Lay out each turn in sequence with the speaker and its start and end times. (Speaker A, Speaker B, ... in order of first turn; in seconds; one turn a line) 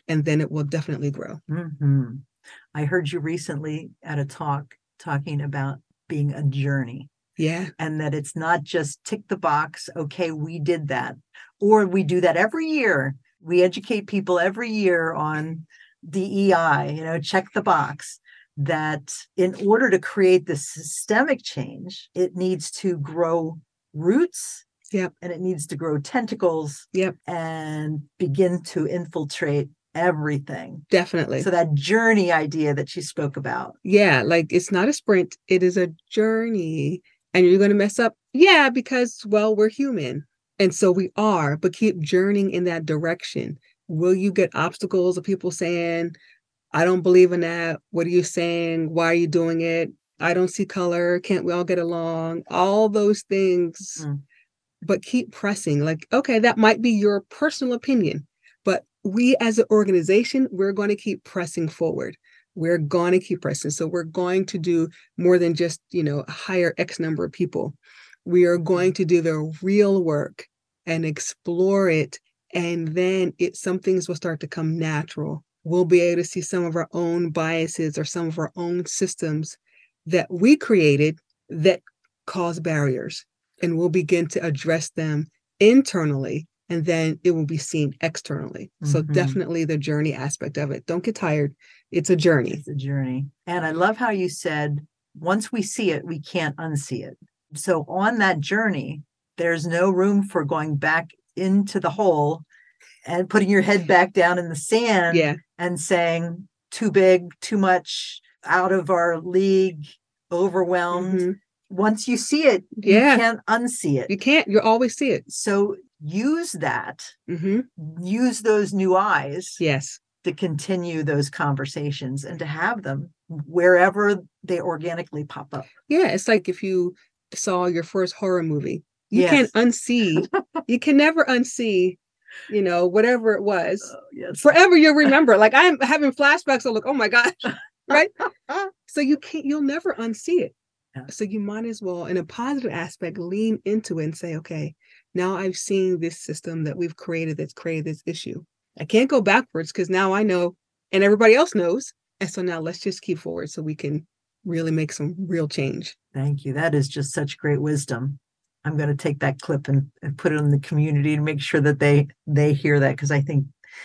Speaker A: 0.1-1.4
Speaker B: 1.5-7.1
Speaker A: 7.4-7.7
Speaker B: 7.8-24.7
Speaker B: 25.2-30.9
Speaker A: 30.9-31.5
Speaker B: 31.4-33.8
Speaker A: 33.9-46.1
Speaker A: 46.7-54.0
Speaker A: 54.8-92.6
Speaker B: 88.8-89.4
Speaker B: 92.5-102.5
Speaker B: 103.1-114.1
Speaker A: 105.1-105.4
Speaker A: 110.9-111.4
Speaker A: 112.8-113.2
Speaker A: 114.1-115.2
Speaker B: 115.3-117.2
Speaker A: 117.3-117.7
Speaker B: 117.8-119.6
Speaker A: 119.6-120.0
Speaker B: 120.2-125.7
Speaker A: 125.9-132.0
Speaker B: 129.1-129.5
Speaker A: 132.5-138.2
Speaker B: 133.9-134.5
Speaker A: 138.8-140.5
Speaker A: 141.1-155.9
Speaker B: 156.1-163.5